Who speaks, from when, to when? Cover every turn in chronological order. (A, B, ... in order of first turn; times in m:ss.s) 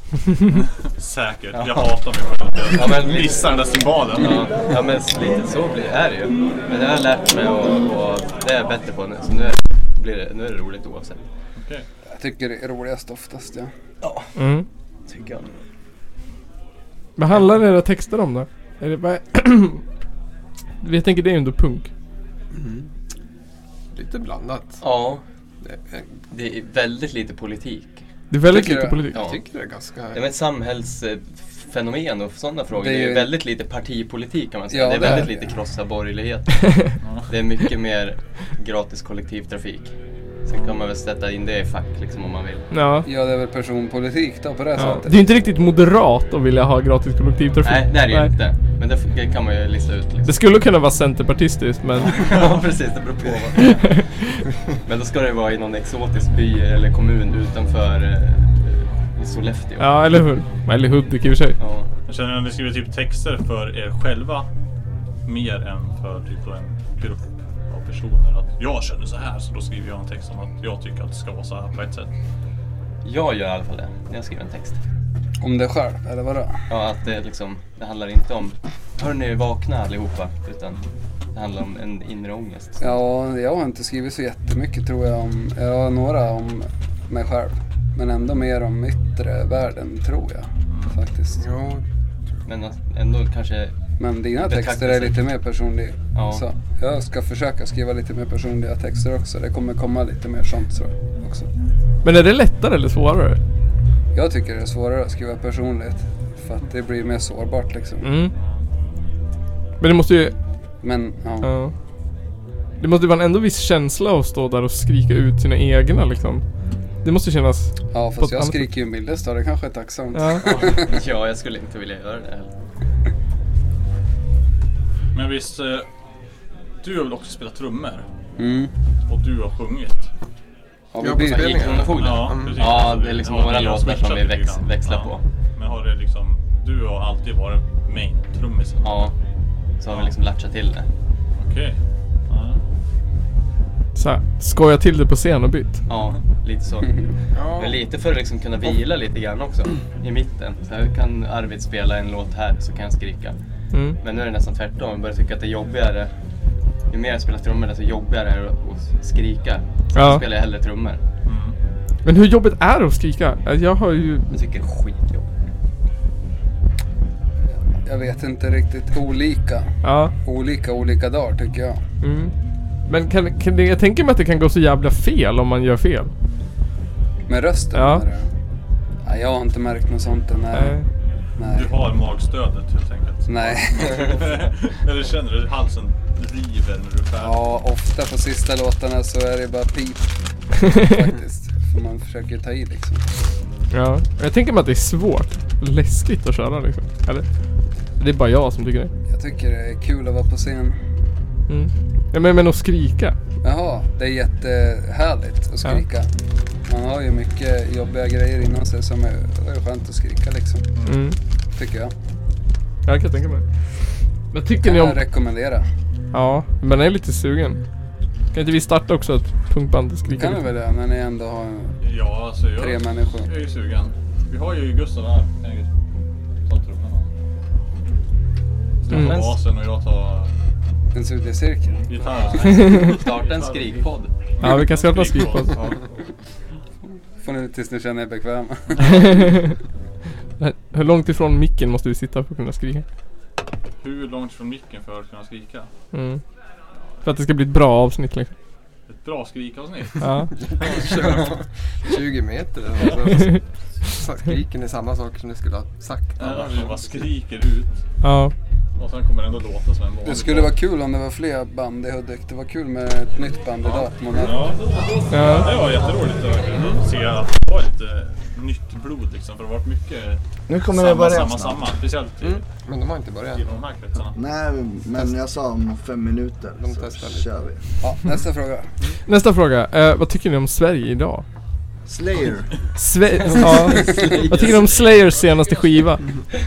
0:00.5-0:04.7 A
0:01.5-0:02.0 B
0:02.7-0:03.6 B
0:04.2-0:11.2 B
0:11.6-0:11.8 A
0:12.1-0:13.7 C
0:14.4-0:14.6 D
0:15.1-0:15.5 B
0:17.2-0:19.8 D
0:20.8-0:21.9 D
0:22.5-0:22.9 E
0:23.9-0:24.8 E
0:24.8-0:25.2 B
0:26.3-0:28.0 B
0:28.3-0:29.2 D
0:28.4-0:29.0 C
0:29.1-0:29.4 B
0:29.1-0:30.2 E
0:30.1-0:39.9 B
0:32.7-0:33.3 C
0:34.7-0:35.4 C
0:37.0-0:37.3 A
0:40.5-0:42.7 B
0:42.7-0:43.0 D
0:43.0-0:45.2 C
0:44.8-0:48.3 D
0:47.6-0:50.4 B
0:50.2-0:52.2 D
0:52.0-0:54.0 B
0:52.2-0:52.6 A
0:53.6-0:54.4 D
0:54.8-1:00.0 B
0:59.8-1:01.6 D
1:01.6-1:01.9 B
1:02.0-1:04.5 A
1:05.2-1:12.1 A
1:13.0-1:14.8 B
1:15.4-1:16.6 C
1:16.7-1:20.8 B
1:21.3-1:22.8 B
1:22.8-1:31.4 C
1:30.7-1:31.0 A
1:31.4-1:31.8 E
1:32.4-1:33.7 B
1:34.0-1:41.5 C
1:34.4-1:35.2 B
1:36.1-1:36.4 B
1:42.0-1:43.4 D
1:44.1-1:48.1 C
1:48.0-1:48.3 D
1:49.8-1:50.4 D
1:50.8-1:51.5 C
1:51.4-1:51.7 D
1:52.8-1:56.4 D
1:57.0-1:58.6 D
1:57.9-2:00.9 C
2:00.1-2:00.4 D
2:00.6-2:02.5 B
2:05.1-2:05.9 A
2:06.8-2:08.0 A
2:08.4-2:08.7 C
2:09.1-2:10.1 A
2:10.9-2:11.7 C
2:11.0-2:12.8 E
2:11.2-2:15.2 B
2:11.8-2:19.1 A
2:18.8-2:19.1 B
2:19.8-2:20.9 B
2:19.9-2:20.1 A
2:21.4-2:22.6 A
2:23.9-2:25.8 D
2:25.9-2:33.4 B
2:27.3-2:27.8 E
2:33.7-2:34.0 D
2:34.0-2:36.1 B
2:36.9-2:41.0 B
2:39.9-2:40.2 D
2:41.2-2:41.6 A
2:42.0-2:44.3 D
2:44.3-2:45.3 B
2:47.8-2:51.8 C
2:49.8-2:50.1 D
2:52.0-2:52.3 D
2:52.9-2:56.1 D
2:57.3-2:58.3 C
2:57.7-2:58.0 D
2:59.0-3:00.8 C
3:00.5-3:00.8 D
3:01.4-3:01.7 C
3:01.4-3:07.4 A
3:03.3-3:04.2 C
3:07.2-3:13.1 C
3:13.7-3:17.2 D
3:18.0-3:18.9 D
3:19.1-3:20.8 C
3:21.5-3:23.1 D
3:23.4-3:26.1 C
3:26.7-3:30.7 C
3:30.8-3:31.0 A
3:30.8-3:31.2 D
3:31.5-3:31.9 C
3:32.8-3:33.5 D
3:34.3-3:35.0 D
3:34.6-3:35.6 C
3:36.1-3:37.6 D
3:38.3-3:40.4 D
3:40.1-3:41.7 C
3:41.8-3:45.7 A
3:42.6-3:43.3 C
3:46.4-3:47.1 A
3:48.8-3:50.3 A
3:48.9-3:49.2 D
3:48.9-3:49.4 B
3:50.9-3:51.8 C
3:51.8-3:56.1 A
3:52.3-3:54.1 B
3:54.4-3:55.7 D
3:57.2-3:59.0 C
3:58.8-3:59.1 A
3:58.9-3:59.5 D
4:00.4-4:02.8 D
4:03.8-4:05.7 A
4:05.9-4:06.2 D
4:07.0-4:08.3 D
4:08.9-4:11.4 A
4:10.0-4:10.3 D
4:10.5-4:17.0 E
4:16.2-4:17.8 A
4:18.0-4:18.3 D
4:18.8-4:20.5 A
4:20.0-4:24.5 C
4:23.6-4:32.4 A
4:25.1-4:25.5 D
4:30.5-4:31.8 F
4:32.2-4:33.5 E
4:33.3-4:34.2 A
4:34.1-4:37.6 F
4:36.6-4:37.3 E
4:37.8-4:38.7 C
4:39.0-4:41.2 D
4:41.9-4:42.6 F
4:42.8-4:46.2 D
4:43.2-4:44.9 B